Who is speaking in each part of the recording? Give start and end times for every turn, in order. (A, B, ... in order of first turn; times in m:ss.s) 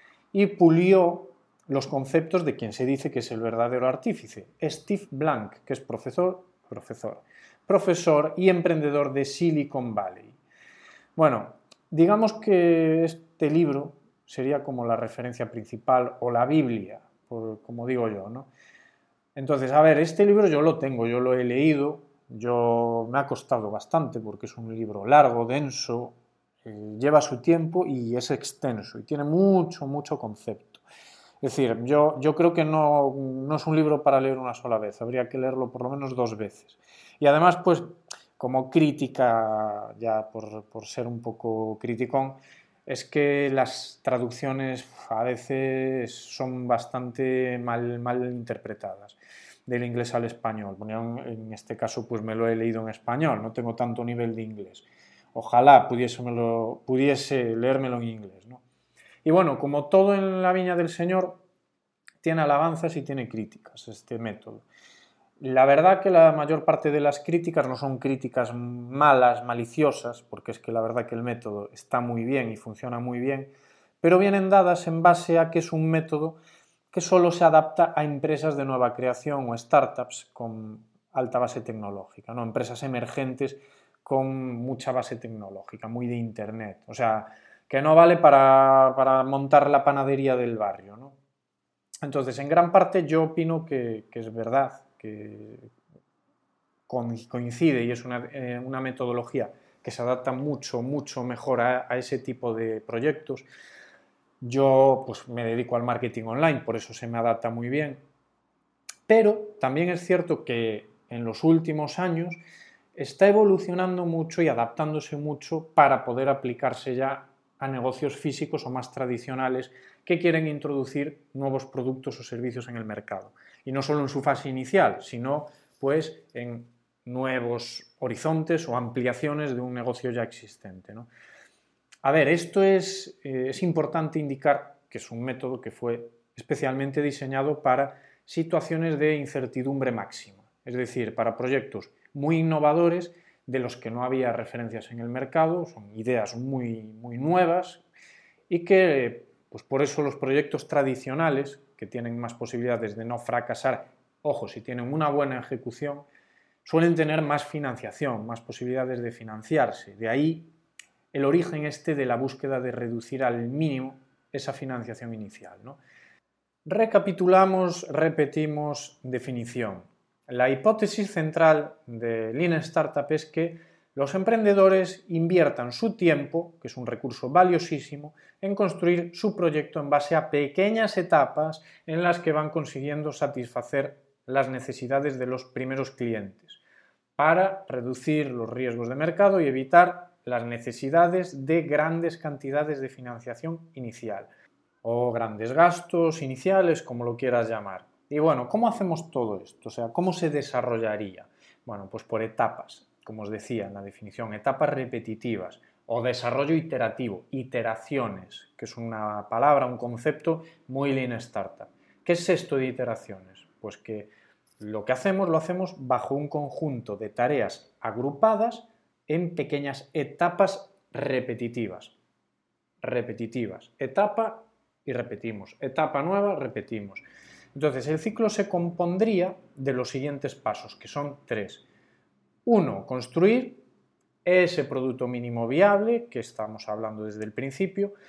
0:00.3-0:10.4 A
0:11.2-0:18.5 A
0:19.4-0:30.8 A
0:31.4-0:58.6 A
0:59.2-1:01.4 A
1:02.2-1:04.6 A
1:05.4-1:16.4 A
1:16.9-1:31.2 A
1:32.0-1:35.7 A
1:36.9-1:43.5 A
1:44.4-1:48.0 A
1:49.1-1:52.4 A
1:53.0-2:11.1 A
2:12.0-2:27.8 A
2:28.5-2:36.1 A
2:36.6-2:40.5 A
2:41.1-2:45.8 A
2:46.7-3:06.6 A
3:07.2-3:14.3 A
3:14.8-3:42.0 A
3:42.8-3:47.0 A
3:47.6-3:51.6 A
3:52.5-3:53.6 A
3:54.2-3:57.9 A